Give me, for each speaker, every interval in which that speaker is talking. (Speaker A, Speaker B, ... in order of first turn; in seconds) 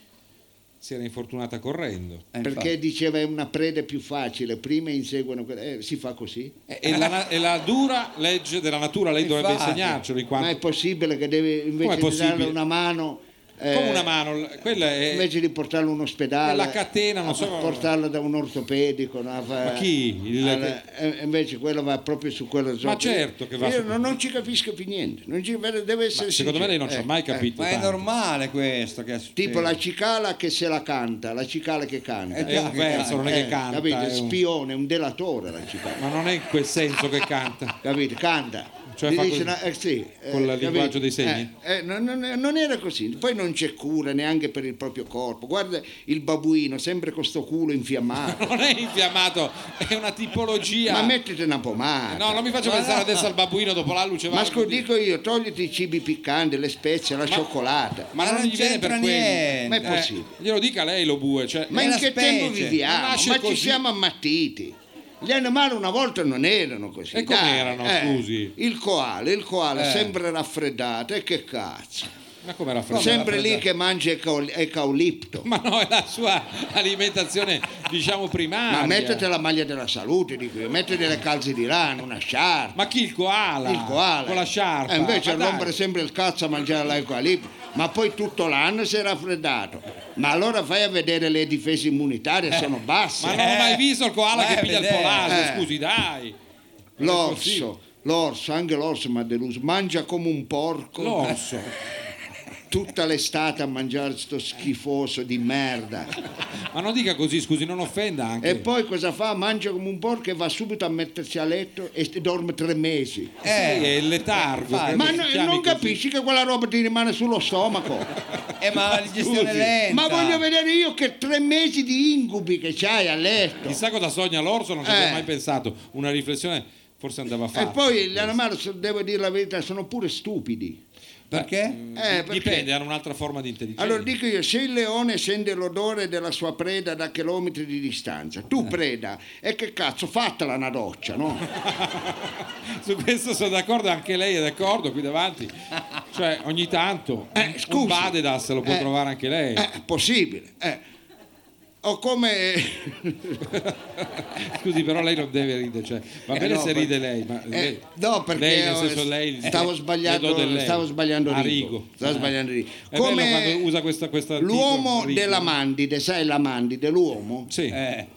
Speaker A: 0.8-2.2, 6.7-10.6, 11.8-12.6, 13.7-15.3, 16.4-17.9, 19.6-20.8, 22.8-24.0, 26.1-28.0, 32.5-34.4, 36.0-37.8, 38.9-39.5, 40.3-41.5, 48.3-51.1, 52.1-54.9, 58.1-61.9, 62.8-63.8, 67.1-68.5, 72.4-73.6, 75.4-79.3, 82.8-85.7, 93.2-96.3, 97.0-97.7, 101.0-101.7, 106.7-108.7, 113.5-116.0, 118.9-119.7, 123.7-128.3, 131.3-134.1, 141.5-145.5, 146.1-149.7, 153.5-157.8, 158.3-162.2, 162.9-165.6, 167.5-167.8
Speaker B: 2.3-2.7, 6.9-7.2, 9.2-10.0, 27.6-29.8, 32.3-33.5, 52.6-53.3, 58.2-60.0, 61.7-62.8, 69.8-70.2, 72.9-73.6, 93.3-95.5, 113.4-115.2, 118.6-120.4, 131.3-131.8, 167.7-168.1
Speaker C: 2.4-6.5, 10.4-14.1, 15.1-19.9, 20.4-27.5, 29.4-36.0, 37.8-48.4, 50.9-52.5, 54.3-58.1, 59.7-60.3, 61.7-72.1, 72.9-75.5, 78.7-82.8, 83.6-93.4, 95.3-95.7, 97.0-101.3, 102.7-106.2, 108.4-113.3, 114.9-118.1, 119.9-123.8, 124.8-125.3, 127.5-130.8, 131.9-132.7, 133.8-141.4, 147.3-148.9, 149.6-150.8, 151.8-153.4, 156.3-156.9, 157.5-163.7, 164.4-167.5